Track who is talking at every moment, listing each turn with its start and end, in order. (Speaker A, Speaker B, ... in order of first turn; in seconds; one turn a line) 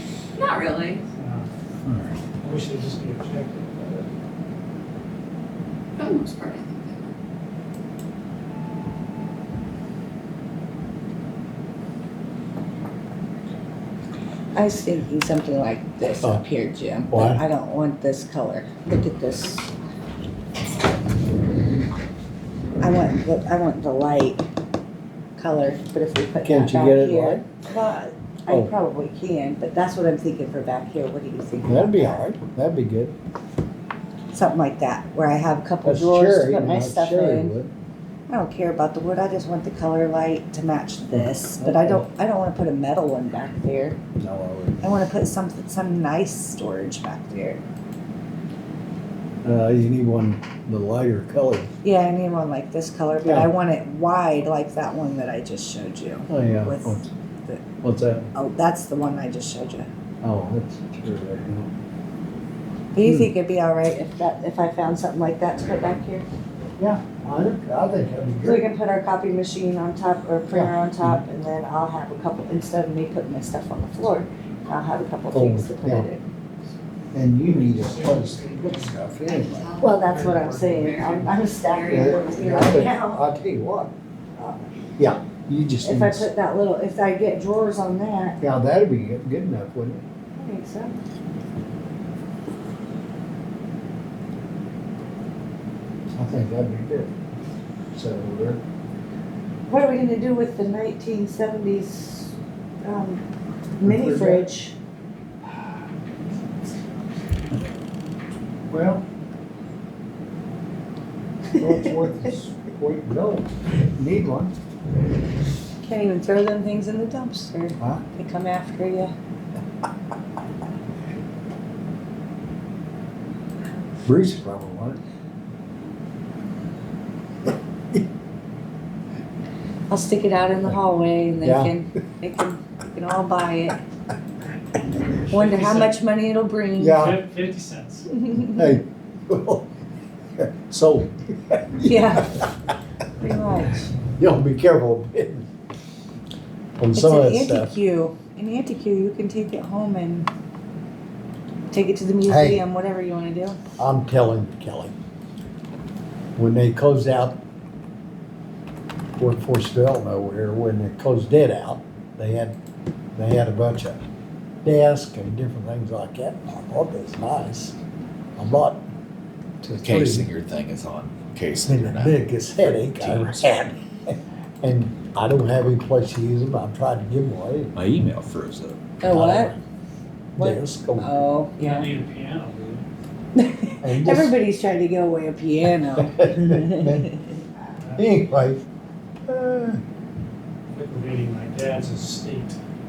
Speaker A: 0.3-1.0
Speaker B: 1.1-1.5
Speaker C: 1.9-2.2
Speaker B: 2.4-4.1
Speaker A: 6.0-7.1
Speaker D: 14.5-19.7
Speaker E: 17.1-17.4
Speaker D: 22.8-24.4
Speaker D: 25.4-32.2
Speaker E: 26.4-27.5
Speaker E: 28.5-28.7
Speaker E: 31.6-33.1
Speaker D: 34.3-37.5
Speaker E: 35.8-37.7
Speaker D: 38.3-44.0
Speaker E: 41.1-42.1
Speaker E: 44.1-44.8
Speaker D: 44.8-47.6
Speaker E: 49.4-51.7
Speaker D: 51.8-57.6
Speaker E: 53.2-53.5
Speaker E: 56.3-57.1
Speaker E: 57.8-58.3
Speaker D: 58.3-59.9
Speaker E: 60.2-61.7
Speaker D: 62.9-66.2
Speaker E: 63.0-63.3
Speaker E: 66.8-68.7
Speaker D: 68.4-76.2
Speaker E: 70.5-71.2
Speaker E: 75.3-76.1
Speaker E: 77.1-79.8
Speaker B: 77.4-79.0
Speaker A: 79.2-79.8
Speaker D: 79.8-83.2
Speaker B: 79.9-81.4
Speaker A: 81.8-82.1
Speaker E: 81.9-83.9
Speaker D: 84.4-84.6
Speaker E: 85.0-86.3
Speaker D: 85.8-88.4
Speaker E: 88.4-90.0
Speaker D: 90.3-91.0
Speaker E: 96.1-97.1
Speaker E: 97.9-98.6
Speaker D: 99.7-103.2
Speaker D: 103.8-104.7
Speaker E: 103.8-104.5
Speaker E: 108.7-109.0
Speaker E: 111.6-114.5
Speaker D: 115.8-119.1
Speaker E: 117.8-118.0
Speaker E: 124.0-125.0
Speaker D: 129.9-133.8
Speaker E: 131.4-131.8
Speaker D: 135.3-137.0
Speaker B: 135.3-135.9
Speaker E: 136.8-137.2
Speaker B: 136.9-138.1
Speaker D: 138.2-138.7
Speaker E: 138.4-139.7
Speaker E: 140.3-142.4
Speaker D: 141.8-142.4
Speaker D: 143.2-143.9
Speaker E: 144.2-145.5
Speaker E: 146.8-147.7
Speaker D: 146.9-150.3
Speaker D: 151.7-153.6
Speaker E: 152.3-152.6
Speaker E: 153.8-154.9
Speaker E: 156.3-157.4
Speaker E: 159.2-162.6
Speaker E: 163.2-164.0
Speaker E: 164.6-167.8
Speaker E: 168.4-168.8
Speaker E: 169.6-170.3
Speaker C: 169.8-172.2
Speaker E: 171.7-177.7
Speaker C: 172.9-173.5
Speaker C: 177.7-179.5
Speaker D: 179.0-179.6
Speaker E: 179.1-179.5
Speaker E: 180.4-181.3
Speaker D: 180.4-181.9
Speaker B: 181.6-182.8
Speaker D: 183.3-187.3
Speaker E: 183.8-184.3
Speaker E: 186.0-187.1
Speaker B: 187.8-188.1
Speaker E: 187.9-188.6
Speaker E: 189.3-189.8
Speaker B: 190.7-192.6